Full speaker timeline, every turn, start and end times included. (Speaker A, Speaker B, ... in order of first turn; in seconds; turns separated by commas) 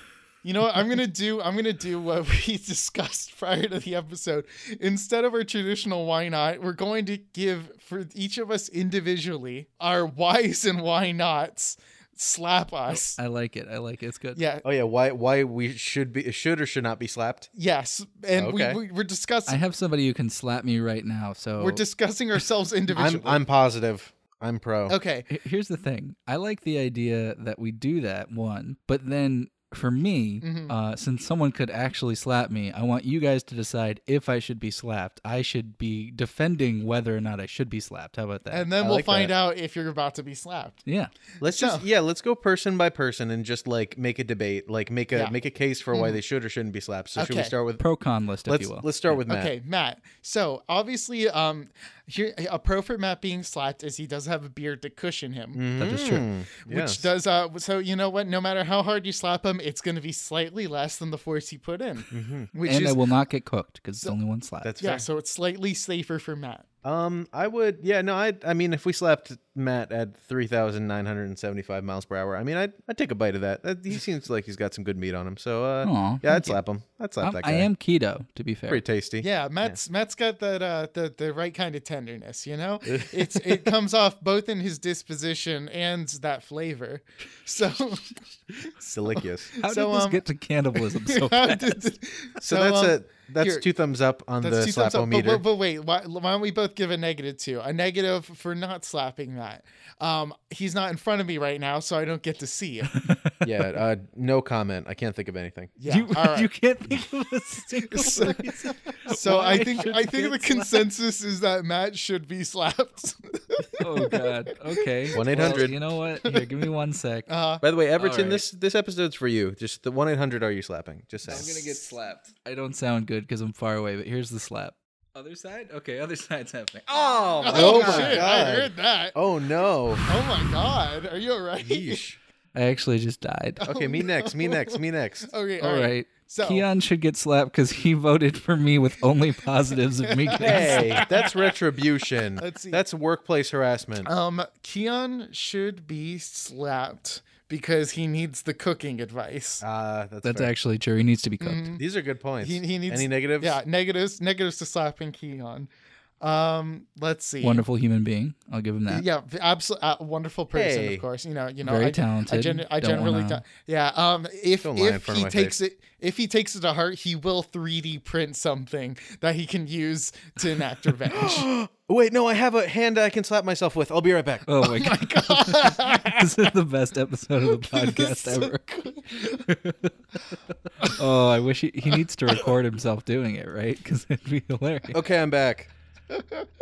Speaker A: 0.4-13.2, Speaker B: 12.9-14.4, Speaker A: 14.3-14.6, Speaker C: 14.6-17.5, Speaker A: 17.6-19.6, Speaker C: 18.4-18.8, Speaker B: 19.5-21.8, Speaker A: 21.6-23.4, Speaker C: 22.9-24.9, Speaker A: 24.9-25.3, Speaker B: 25.3-38.7, Speaker A: 30.4-30.7, Speaker A: 38.5-40.8, Speaker C: 38.8-39.3, Speaker B: 40.9-41.1, Speaker C: 41.4-47.8, Speaker A: 41.5-41.8, Speaker A: 45.9-46.2, Speaker A: 47.1-47.5, Speaker B: 47.8-48.9, Speaker C: 48.5-49.5, Speaker A: 49.3-55.6, Speaker C: 55.5-57.1, Speaker B: 55.8-56.3, Speaker A: 56.6-63.0, Speaker C: 62.1-62.5, Speaker B: 62.6-64.7, Speaker C: 64.6-65.0, Speaker A: 64.8-66.6, Speaker C: 66.8-77.7, Speaker B: 75.8-76.6, Speaker B: 77.2-78.8, Speaker C: 78.7-79.8, Speaker A: 79.2-90.2, Speaker C: 82.9-83.7, Speaker C: 88.9-89.5, Speaker B: 89.6-91.8, Speaker A: 90.7-93.7, Speaker C: 92.4-95.4, Speaker A: 94.4-103.0, Speaker B: 102.9-103.5, Speaker C: 103.4-105.7, Speaker A: 105.8-106.5, Speaker B: 105.9-110.9, Speaker A: 107.9-115.6, Speaker B: 113.8-117.3, Speaker C: 115.1-115.8, Speaker A: 117.3-117.6, Speaker C: 117.6-121.6, Speaker B: 118.0-118.5, Speaker B: 121.3-128.3, Speaker A: 121.3-121.6, Speaker A: 127.4-129.2, Speaker C: 127.5-130.1, Speaker A: 130.1-132.0, Speaker C: 131.6-132.2, Speaker B: 132.5-133.6, Speaker A: 133.6-136.7, Speaker C: 133.7-135.3, Speaker B: 135.6-141.0, Speaker A: 140.1-141.3, Speaker C: 140.3-144.1, Speaker A: 142.4-142.8, Speaker A: 144.1-149.6, Speaker C: 149.6-150.5, Speaker B: 150.2-151.7, Speaker A: 151.4-151.8, Speaker C: 151.8-153.6, Speaker A: 152.4-155.7, Speaker A: 156.2-157.6, Speaker B: 157.4-159.1, Speaker A: 158.9-171.5, Speaker C: 160.5-161.1, Speaker B: 161.6-163.4, Speaker C: 164.6-165.6, Speaker C: 171.1-174.5, Speaker B: 174.5-179.9, Speaker A: 174.6-176.5, Speaker A: 177.5-179.5, Speaker B: 180.8-185.0, Speaker C: 184.9-185.7, Speaker A: 186.1-186.5